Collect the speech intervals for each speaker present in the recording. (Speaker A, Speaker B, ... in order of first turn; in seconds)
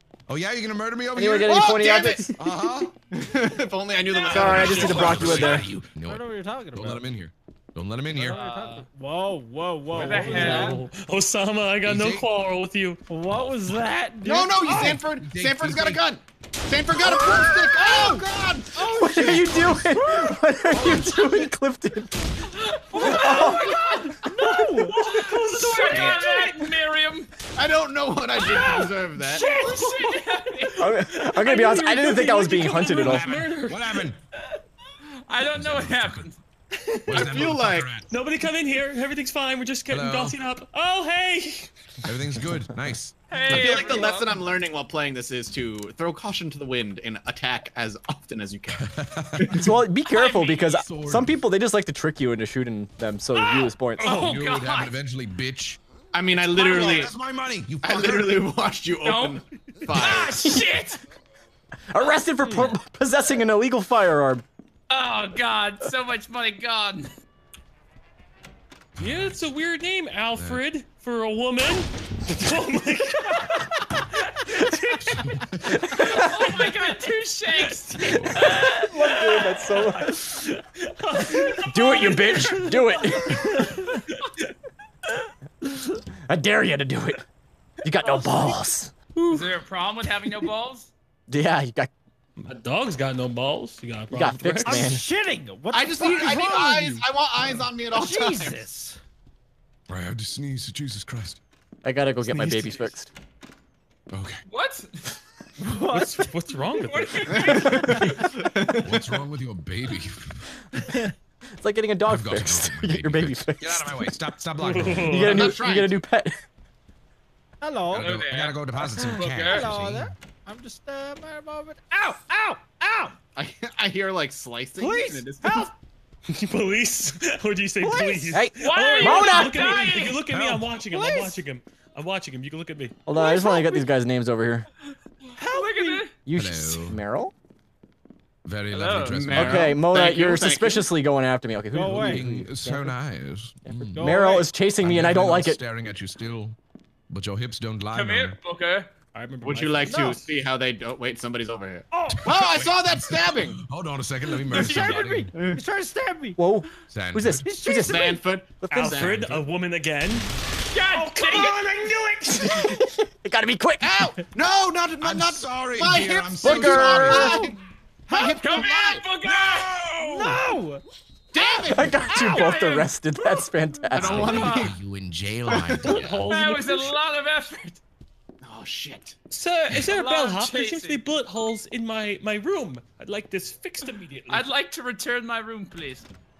Speaker A: 0.3-2.9, 4.3-8.4, 11.8-12.3, 13.2-13.9, 14.6-16.0, 20.7-21.5, 32.9-34.2, 35.5-36.3, 37.1-38.1, 39.9-40.4, 42.0-44.0, 48.7-49.8, 50.8-51.4, 54.0-55.8, 56.5-58.5, 69.0-69.4, 70.3-70.6, 75.0-75.9, 78.0-78.5, 99.9-101.4, 104.1-104.4, 108.8-110.4, 112.0-115.3, 117.9-120.1, 130.2-130.8, 136.3-137.0, 138.4-139.8, 142.0-146.6, 147.1-148.4, 152.1-155.3, 156.9-157.5, 165.0-167.4, 169.3-169.7, 173.9-176.3
Speaker B: 1.1-2.4, 4.3-5.7, 18.9-22.4, 22.9-24.2, 30.8-33.4, 49.5-54.3, 60.4-60.7, 61.9-64.4, 78.5-80.2, 81.6-83.7, 86.3-87.2, 87.8-88.9, 91.3-91.9, 94.1-95.0, 101.8-103.1, 111.6-114.1, 114.7-116.4, 128.3-129.9, 133.1-134.7, 136.2-137.3, 139.3-142.9, 143.7-145.6, 156.3-159.2, 162.4-164.0, 166.4-167.5, 171.7-174.5
Speaker C: 1.5-2.2, 3.1-5.6, 14.2-19.7, 25.9-26.2, 27.6-29.6, 37.1-37.9, 43.5-49.6, 56.1-57.1, 57.8-60.4, 95.7-98.6, 107.3-108.8, 115.2-116.0, 123.3-125.7, 139.1-140.9, 149.4-153.6, 155.3-155.6, 157.8-159.4, 163.8-167.6, 168.1-169.0, 171.3-172.1, 173.9-174.7, 178.4-179.2
Speaker D: 4.0-5.2, 8.2-8.9, 9.9-10.8, 22.5-24.4, 25.0-27.3, 28.4-31.1, 35.3-36.4, 43.3-44.4, 50.1-50.9, 53.3-54.9, 56.3-57.1, 59.0-61.0, 64.9-67.1, 75.8-78.6, 89.3-90.9, 104.5-105.0, 106.8-108.1, 117.9-119.7, 128.6-130.2, 133.1-133.7, 135.3-136.1, 138.7-139.3, 147.9-148.9, 154.5-155.0, 160.7-161.9, 168.1-170.4, 171.4-172.9, 174.3-174.7, 176.1-177.8, 179.8-181.0, 184.3-186.1
Speaker E: 6.0-7.0, 8.1-10.8, 13.1-14.8, 17.2-18.2, 18.7-20.3, 23.0-25.3, 94.7-97.0, 97.9-99.0, 105.6-106.3, 117.6-118.1, 119.3-123.1, 124.8-125.7, 127.8-128.4, 135.4-136.1, 141.7-142.2, 143.9-144.5, 151.9-152.3, 154.5-156.4, 157.4-158.2, 167.1-167.5, 168.1-168.7, 170.1-170.8
Speaker F: 9.9-13.1, 24.5-26.8, 29.3-33.9, 36.8-37.3, 38.1-41.7, 62.4-62.8, 69.0-76.3, 77.7-84.4, 89.1-89.5, 92.4-94.9, 102.2-102.9, 105.7-107.8, 114.6-115.5, 126.3-132.9, 149.1-150.3, 158.7-160.3, 160.9-162.8, 175.8-176.9, 179.3-184.5